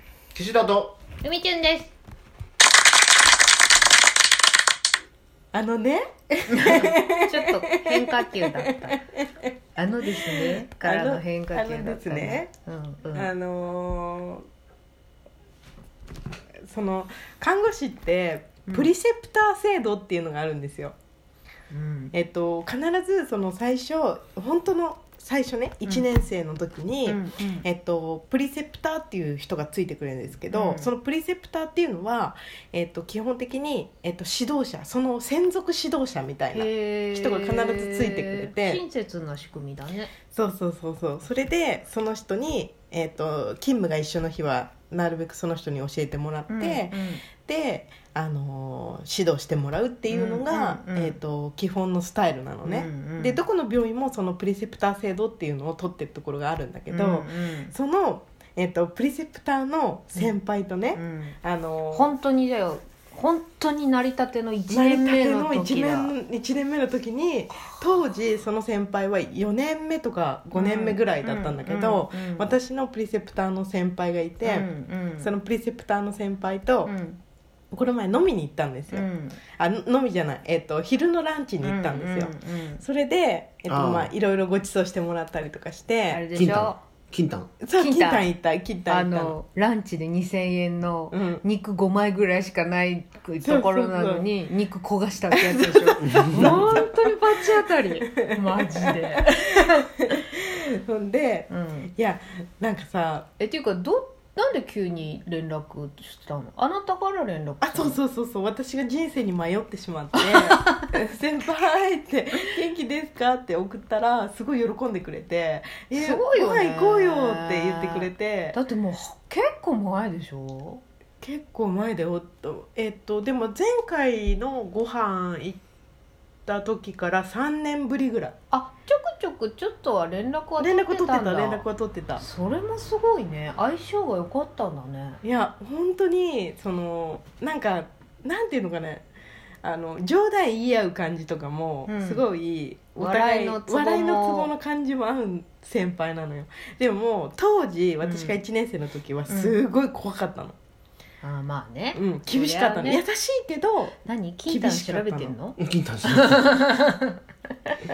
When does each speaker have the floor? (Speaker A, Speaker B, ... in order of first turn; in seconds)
Speaker A: 0.3-1.0, 83.7-84.1, 86.3-87.5, 96.0-96.7, 155.6-156.5
Speaker B: 1.2-1.9, 6.5-9.0, 9.8-13.3, 18.7-18.9, 21.7-22.1, 27.1-27.6, 30.5-30.9, 36.5-40.1, 46.5-47.2, 50.1-51.2, 52.6-53.4, 56.9-57.7, 60.9-61.4, 61.9-66.1, 67.5-67.8, 70.5-72.5, 74.4-75.3, 76.8-77.2, 78.9-79.4, 81.6-82.8, 86.1-86.8, 87.7-88.3, 88.9-100.1, 101.5-101.9, 103.4-108.0, 110.4-110.9, 115.9-120.8, 128.5-131.7, 132.2-135.2, 141.9-142.2, 143.0-144.5, 148.0-148.4, 149.3-149.6, 151.2-153.0, 154.0-157.2
Speaker C: 5.5-9.5, 10.1-12.5, 13.1-14.4, 16.7-20.9, 22.1-38.8, 40.3-62.1, 64.7-74.7, 75.2-76.9, 77.7-86.2, 87.6-89.3, 91.1-91.4, 93.4-94.3, 95.3-97.2, 98.2-99.4, 100.0-103.2, 107.6-118.5, 121.2-125.6, 126.5-128.3, 130.6-132.2, 135.2-139.0, 139.6-150.6, 151.9-153.9, 154.5-155.4